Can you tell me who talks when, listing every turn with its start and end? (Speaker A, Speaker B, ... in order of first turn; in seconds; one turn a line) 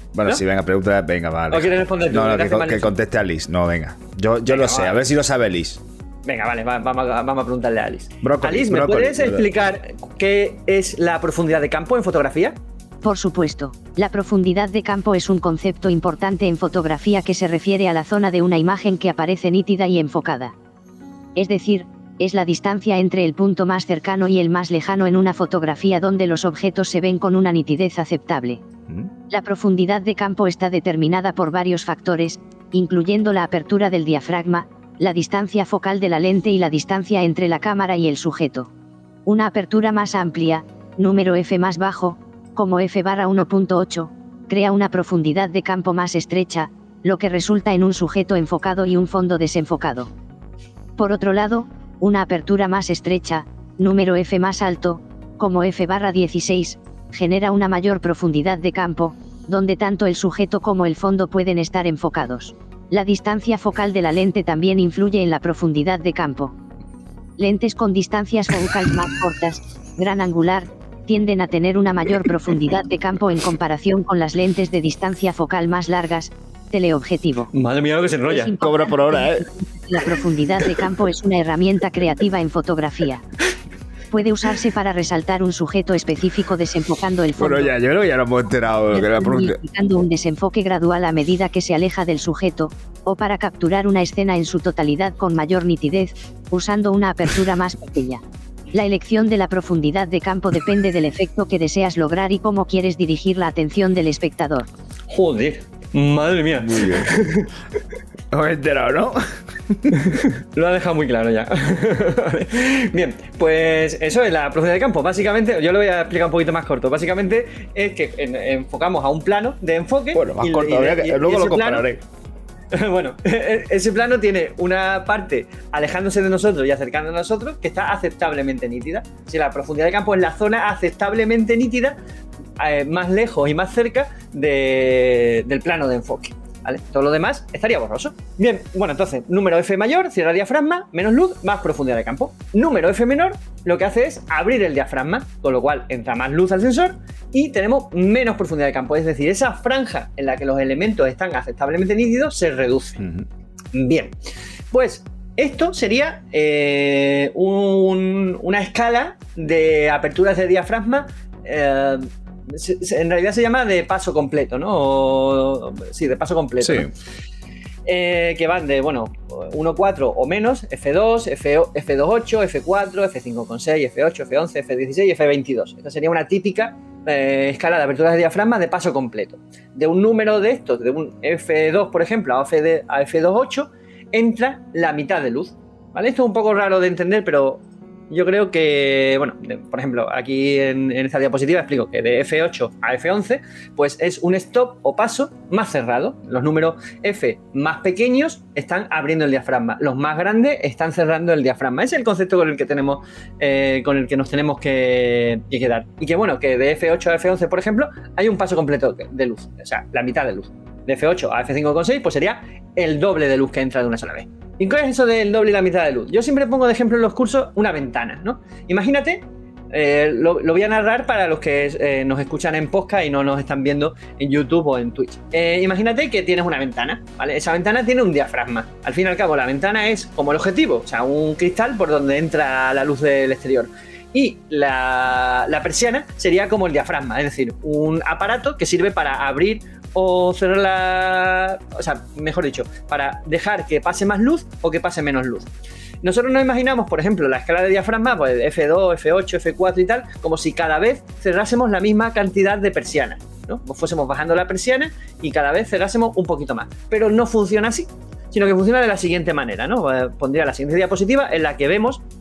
Speaker A: 0.1-5.8
Speaker B: 1.5-2.9
Speaker B: 4.5-5.0
Speaker B: 6.2-12.6
Speaker A: 8.2-9.5
Speaker C: 13.0-20.5
Speaker C: 21.4-28.6
Speaker C: 29.3-38.7
Speaker C: 39.3-50.1
Speaker C: 51.0-66.5
Speaker C: 67.4-77.5
Speaker B: 77.5-78.5
Speaker C: 78.3-83.2
Speaker A: 78.6-79.5
Speaker C: 84.1-87.7
Speaker A: 87.4-89.6
Speaker C: 88.9-98.2
Speaker C: 98.7-104.7
Speaker B: 105.1-107.5
Speaker A: 106.6-107.1
Speaker A: 108.3-110.0
Speaker B: 109.9-121.8
Speaker A: 120.1-122.0
Speaker B: 122.7-131.9
Speaker B: 132.6-153.0
Speaker A: 153.0-153.3
Speaker B: 153.7-154.1
Speaker B: 154.7-166.9
Speaker A: 166.6-166.9
Speaker B: 167.9-245.5
Speaker B: 246.0-262.0